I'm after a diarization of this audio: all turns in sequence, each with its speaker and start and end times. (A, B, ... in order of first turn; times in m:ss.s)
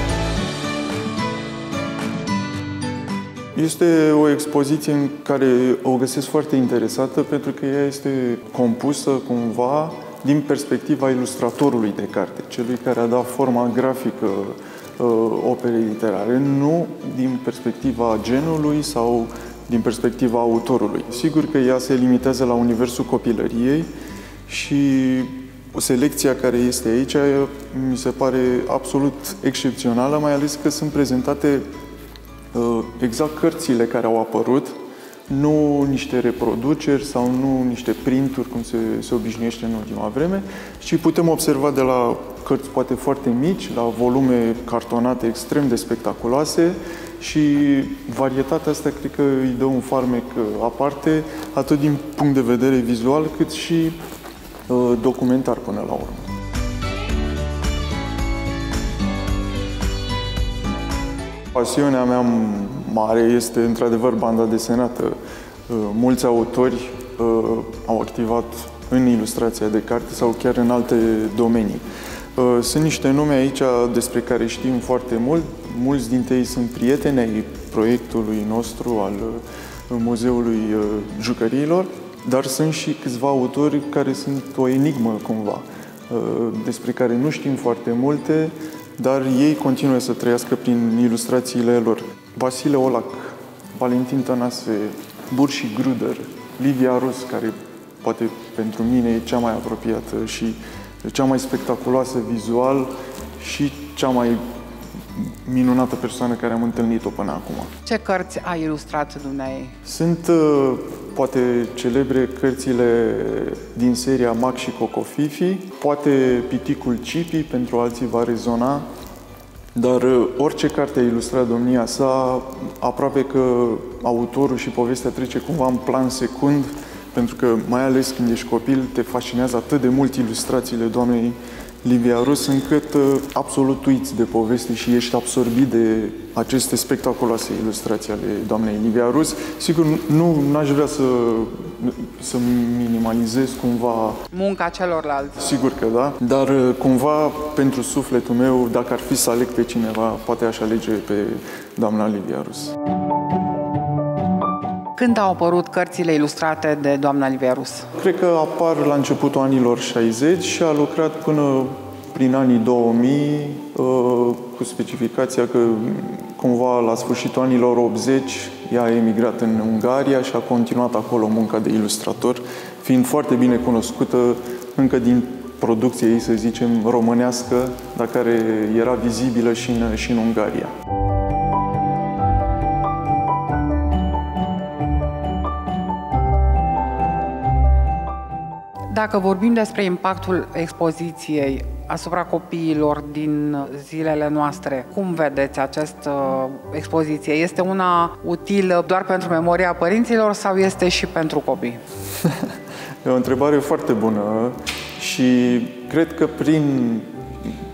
0:03.6-0:23.9 A
0:24.5-0:31.7 A
0:32.5-0:34.8 A
0:35.3-0:54.0 A
0:54.7-0:56.3 A
1:01.6-1:05.2 A
1:05.7-1:11.8 A
1:12.4-1:44.4 A
1:45.2-1:47.7 A
1:47.8-1:49.7 B
1:49.8-1:58.8 A
1:59.8-2:24.2 A
2:24.3-2:25.5 B
2:25.4-2:32.7 A
2:35.0-2:37.9 B
2:38.0-3:00.7 A
3:08.9-3:21.8 B
3:23.0-3:27.1 A